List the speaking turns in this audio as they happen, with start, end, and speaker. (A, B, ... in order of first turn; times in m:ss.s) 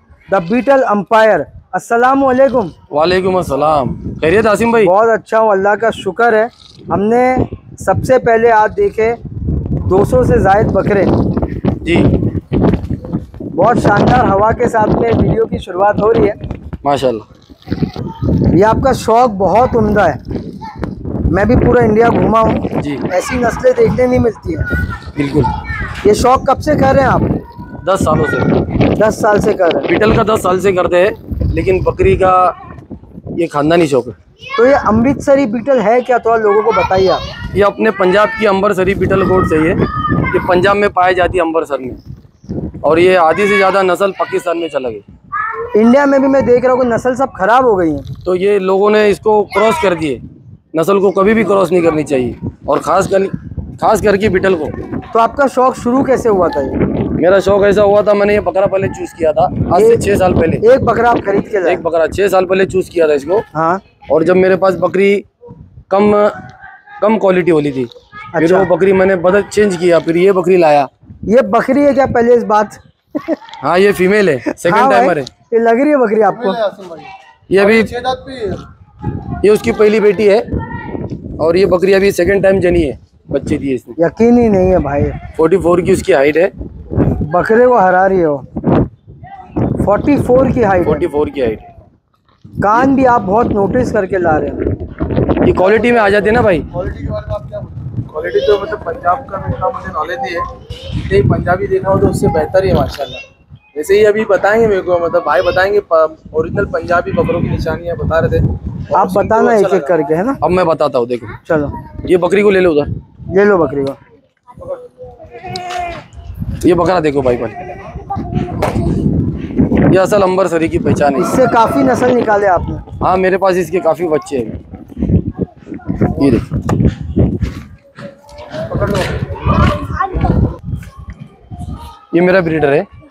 0:00.3-0:02.7 A
0:02.9-0:04.9 B
0:04.8-0:09.2 A
0:09.9-0:11.2 A
0:11.8-0:12.1 B
0:13.5-0:16.4 A
0:16.8-0:17.2 B
0:18.5-0:20.2 A
0:21.3-0:24.7 A
0:22.8-0:23.0 B
0:25.1-0:25.5 B
0:26.0-0:27.4 A
0:27.8-0:28.5 B
0:29.0-0:29.9 A
0:29.9-0:32.5 B
0:33.4-0:34.1 B
0:34.6-0:37.2 A
0:37.5-0:42.0 B
0:42.8-0:45.0 B
0:45.7-0:48.1 A
0:48.2-0:54.7 B
0:55.1-0:56.8 A
0:57.2-1:00.6 B
0:59.7-1:00.0 A
1:00.6-1:01.8 A
1:01.6-1:03.4 B
1:03.5-1:03.8 A
1:04.1-1:05.2 B
1:05.9-1:06.3 B
1:07.0-1:10.9 B
1:08.3-1:08.7 A
1:11.3-1:13.4 A
1:13.6-1:15.3 B
1:14.6-1:17.0 A
1:17.5-1:18.4 B
1:19.4-1:20.4 B
1:21.4-1:24.0 B
1:24.0-1:25.2 A
1:25.3-1:26.5 B
1:27.2-1:28.4 A
1:29.8-1:31.1 A
1:30.8-1:31.7 B
1:32.6-1:34.6 A
1:35.4-1:37.2 B
1:38.1-1:40.4 C
1:41.1-1:43.2 C
1:43.7-1:48.4 C
1:48.9-1:50.4 A
1:49.1-1:49.7 C
1:50.4-1:51.4 B
1:51.4-1:51.7 A
1:52.0-1:52.9 B
1:53.3-1:54.0 A
1:56.6-1:57.6 B
1:59.9-2:01.3 B
2:01.2-2:02.8 A
2:03.0-2:04.6 B
2:06.1-2:06.4 B
2:12.1-2:12.9 B